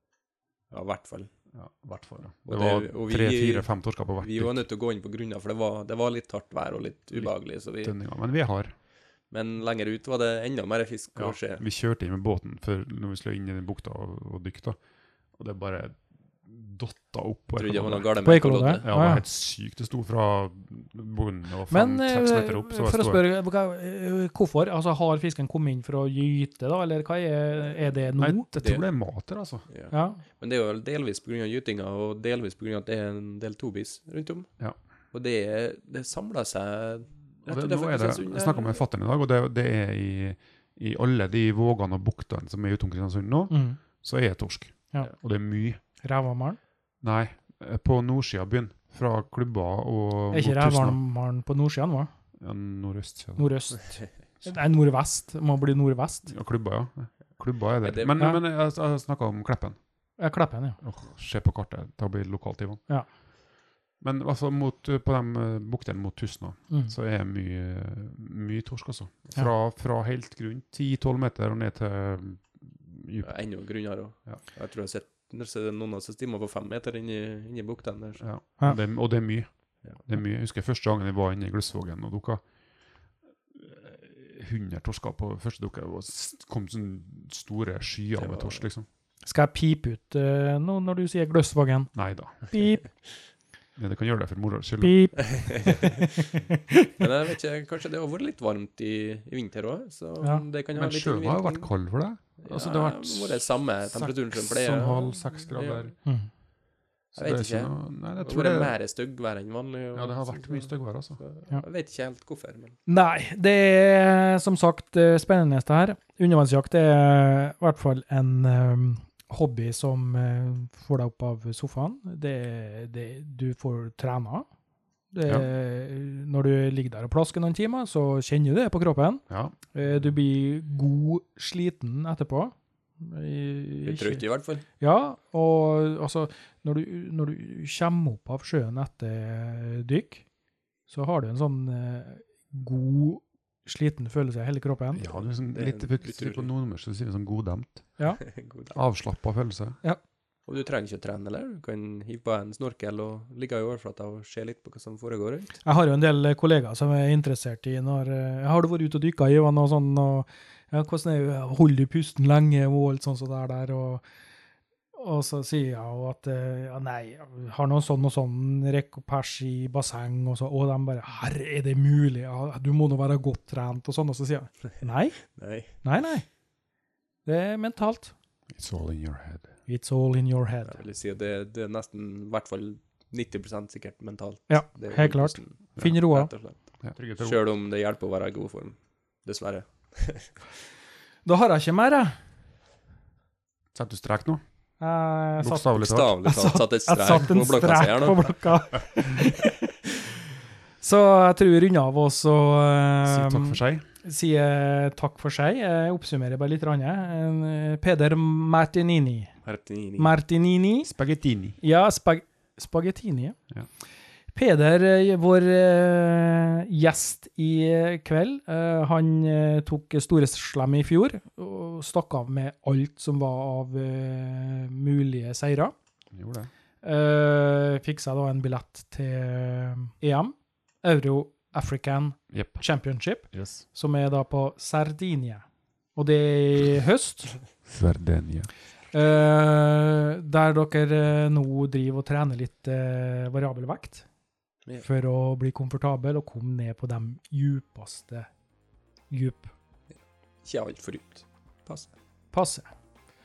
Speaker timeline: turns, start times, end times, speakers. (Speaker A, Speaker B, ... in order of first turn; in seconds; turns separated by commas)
Speaker A: 0.7-1.3, Speaker B: 1.5-4.6, Speaker A: 2.4-7.9, Speaker B: 7.2-8.7, Speaker A: 9.3-11.6, Speaker B: 11.1-14.8, Speaker B: 15.4-18.1, Speaker A: 17.6-18.9, Speaker C: 18.2-19.2, Speaker B: 18.8-23.2, Speaker C: 21.7-28.5, Speaker B: 28.2-29.6, Speaker A: 28.6-28.8, Speaker A: 29.7-34.5, Speaker C: 29.9-30.2, Speaker A: 35.1-38.8, Speaker B: 37.5-45.8, Speaker C: 43.5-43.8, Speaker C: 46.0-46.6, Speaker B: 47.0-51.0, Speaker C: 50.3-52.1, Speaker B: 52.4-53.5, Speaker C: 53.4-56.3, Speaker B: 56.3-59.8, Speaker A: 57.8-58.1, Speaker C: 60.2-60.8, Speaker B: 60.8-62.8, Speaker B: 64.0-73.3, Speaker A: 73.2-78.2, Speaker B: 74.2-74.4, Speaker B: 78.2-82.4, Speaker B: 83.5-88.8, Speaker A: 88.2-88.6, Speaker C: 89.2-92.9, Speaker B: 91.9-92.4, Speaker B: 93.8-95.3, Speaker C: 94.8-96.9, Speaker A: 95.2-95.9, Speaker A: 97.0-101.7, Speaker C: 100.2-100.5, Speaker B: 100.7-105.9, Speaker A: 102.4-105.9, Speaker B: 107.1-108.7, Speaker A: 107.1-112.8, Speaker B: 109.9-111.2, Speaker C: 112.9-124.5, Speaker C: 125.1-134.2, Speaker B: 129.3-129.6, Speaker A: 133.8-134.6, Speaker C: 134.8-140.2, Speaker C: 140.9-145.1, Speaker B: 144.9-148.0, Speaker A: 145.5-146.5, Speaker A: 148.2-148.8, Speaker B: 148.7-149.8, Speaker A: 150.5-155.5, Speaker C: 155.6-164.0, Speaker C: 164.9-176.2, Speaker A: 175.3-175.8, Speaker C: 177.2-178.1, Speaker B: 178.5-179.5, Speaker C: 179.7-180.8, Speaker A: 180.7-190.3, Speaker C: 184.5-186.3, Speaker B: 186.8-187.4, Speaker C: 191.2-192.1, Speaker B: 193.7-194.4, Speaker C: 194.8-199.9, Speaker B: 195.4-196.1, Speaker A: 195.8-198.3, Speaker C: 200.8-209.3, Speaker B: 203.0-203.8, Speaker A: 209.4-210.2, Speaker C: 210.0-210.9, Speaker B: 210.8-211.6, Speaker C: 211.6-213.4, Speaker C: 214.3-225.7, Speaker B: 226.1-226.5, Speaker C: 226.8-235.4, Speaker B: 232.3-232.6, Speaker B: 233.3-233.6, Speaker C: 235.9-237.4, Speaker B: 237.7-238.5, Speaker C: 238.9-244.1, Speaker C: 244.8-248.3, Speaker C: 249.1-249.5, Speaker A: 250.4-251.9, Speaker C: 252.3-252.7